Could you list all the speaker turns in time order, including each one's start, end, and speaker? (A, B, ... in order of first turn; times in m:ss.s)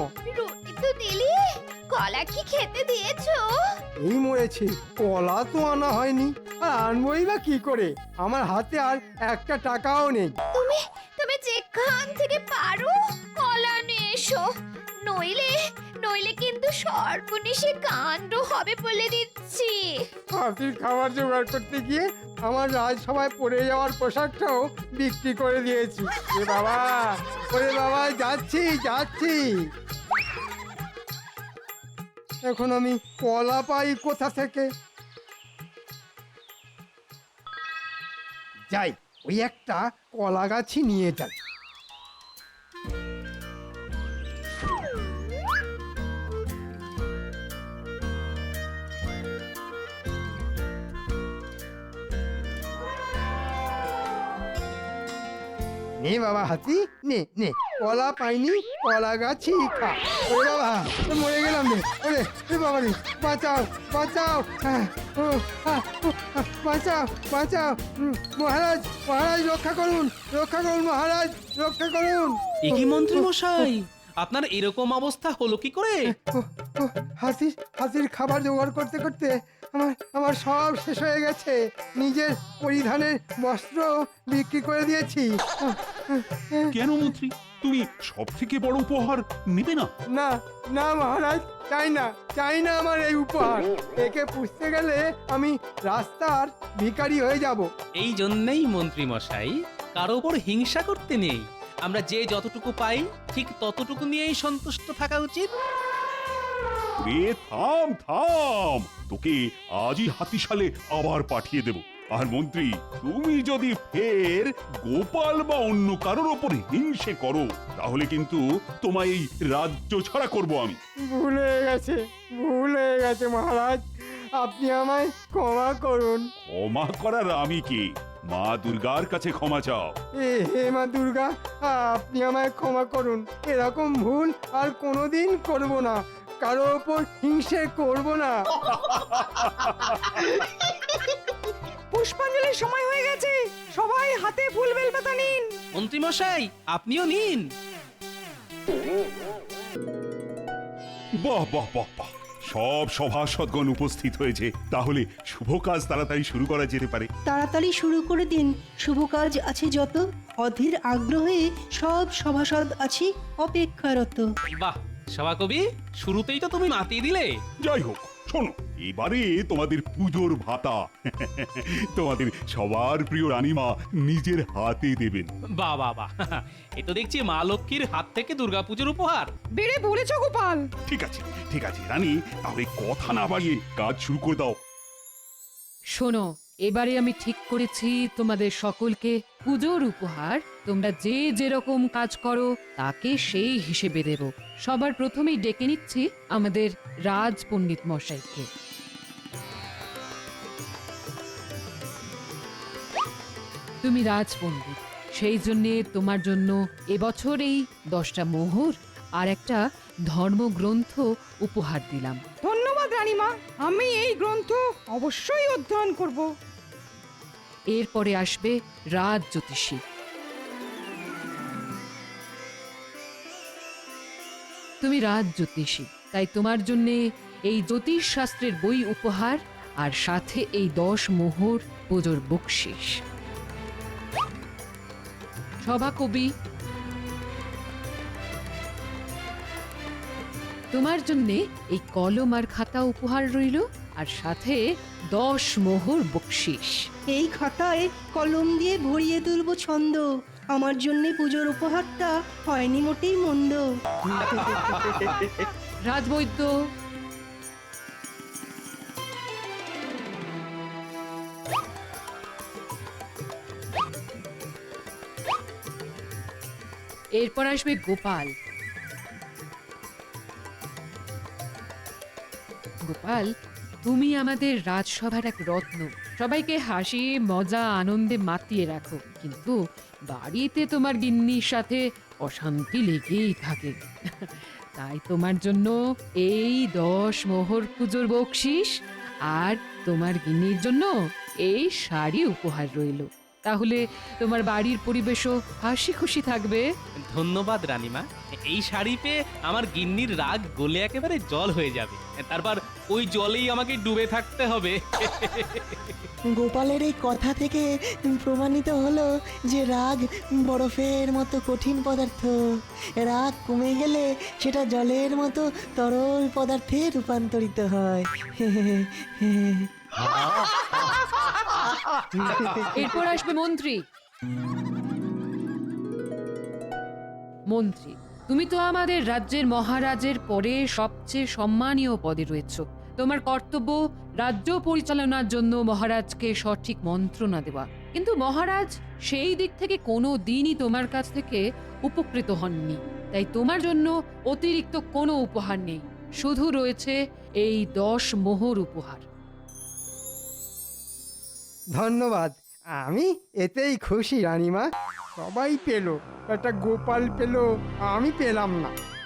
0:00.3-0:03.8 A
0:04.0-0:10.3 B
0:10.5-0:14.5 A
0:15.0-0:20.1 A
0:20.4-0:29.5 B
0:32.5-0:34.7 B
0:38.7-0:41.3 B
0:56.0-1:13.2 B
1:12.7-1:16.1 C
1:16.1-1:26.7 B
1:26.7-1:29.9 D
1:30.1-1:37.7 B
1:38.0-1:45.5 C
1:47.0-2:00.8 D
2:01.1-2:03.8 B
2:04.4-2:06.2 B
2:06.5-2:10.0 D
2:10.2-2:18.4 B
2:18.7-2:20.0 D
2:21.9-2:25.5 E
2:25.8-2:27.5 C
2:31.2-2:37.1 D
2:37.3-2:44.3 F
2:44.6-2:47.4 C
2:47.6-2:55.3 D
2:55.5-2:59.3 C
2:59.6-3:00.7 E
3:00.9-3:04.6 D
3:06.0-3:18.5 G
3:23.8-3:32.2 G
3:32.4-3:36.3 E
3:37.8-3:39.8 G
3:44.8-3:53.0 G
3:55.7-3:56.3 G
4:00.7-4:04.6 G
4:05.1-4:06.8 G
4:07.1-4:13.7 F
4:14.2-4:14.7 F
4:15.9-4:16.5 G
4:27.2-4:28.3 G
4:32.9-4:33.3 G
4:33.8-4:39.6 G
4:40.1-4:48.8 G
4:49.3-4:51.0 G
4:51.5-4:56.6 G
4:57.0-5:06.0 C
5:06.4-5:12.4 H
5:13.0-5:19.7 H
5:22.6-5:23.8 G
5:27.5-5:49.1 G
5:51.8-5:58.7 B